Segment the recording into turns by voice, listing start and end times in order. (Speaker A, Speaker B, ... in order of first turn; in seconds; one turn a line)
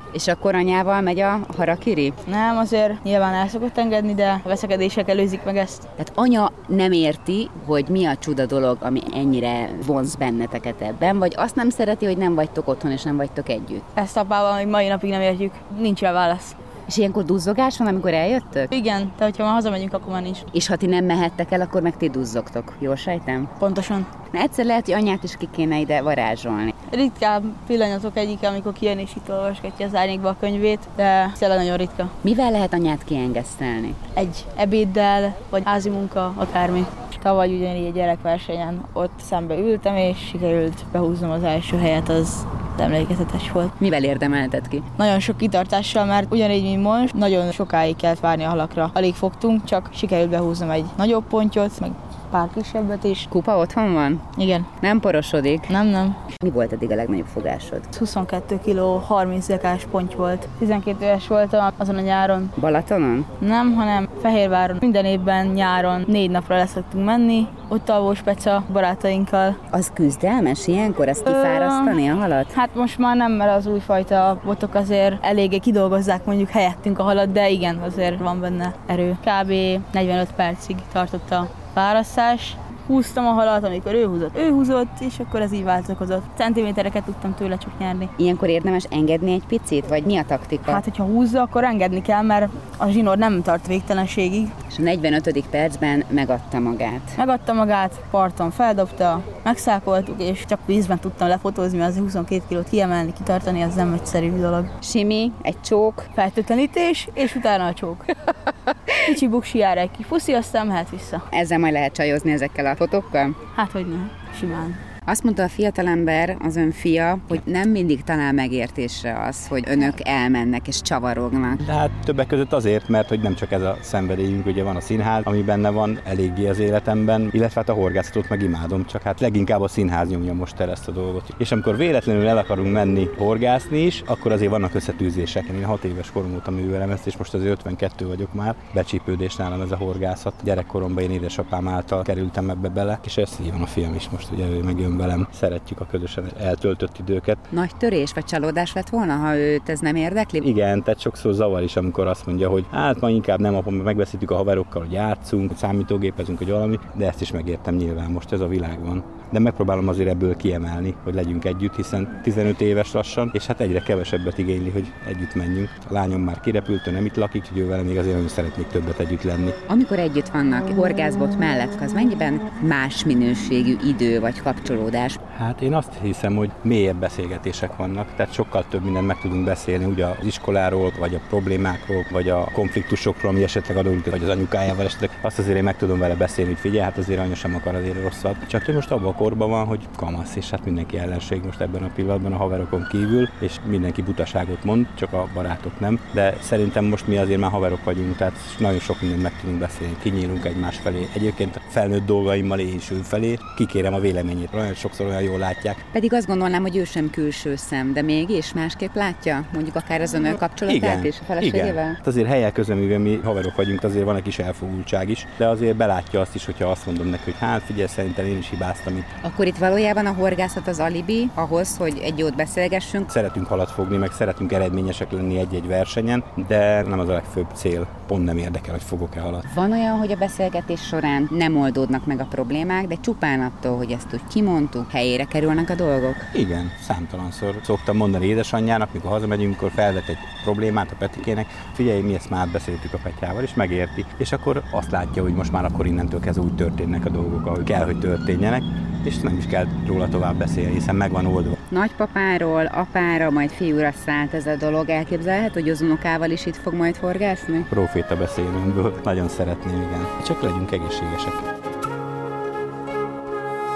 Speaker A: 0.1-2.1
Speaker B: 2.3-5.9
Speaker A: 6.0-13.9
Speaker B: 13.9-16.6
Speaker A: 16.9-18.7
Speaker B: 18.7-20.4
Speaker A: 20.5-23.5
Speaker B: 23.6-24.1
Speaker A: 24.3-26.8
Speaker B: 26.9-32.1
Speaker A: 32.2-34.0
Speaker B: 34.2-43.7
Speaker A: 43.8-44.9
Speaker B: 45.0-53.3
Speaker A: 53.3-54.2
Speaker B: 54.4-54.7
Speaker A: 54.8-55.7
Speaker B: 55.7-56.2
Speaker A: 56.4-57.9
Speaker B: 57.9-62.5
Speaker A: 62.6-63.3
Speaker B: 63.4-69.6
Speaker A: 69.7-72.5
Speaker B: 71.3-72.0
Speaker B: 72.5-88.1
Speaker A: 88.2-90.8
Speaker B: 90.7-94.5
Speaker A: 94.7-97.2
Speaker B: 97.2-104.7
Speaker A: 104.8-106.1
Speaker B: 106.2-108.1
Speaker B: 109.0-111.2
Speaker A: 111.3-113.4
Speaker B: 113.6-114.8
Speaker A: 115.1-121.6
Speaker C: 121.6-147.4
Speaker A: 147.5-150.4
Speaker C: 150.4-169.6
Speaker A: 169.7-175.2
Speaker C: 175.3-205.8
Speaker A: 205.9-212.0
Speaker C: 210.7-219.1
Speaker A: 219.2-223.1
Speaker C: 223.1-229.4
Speaker A: 229.5-236.3
Speaker C: 236.3-251.6
Speaker A: 251.7-257.7
Speaker C: 257.7-261.4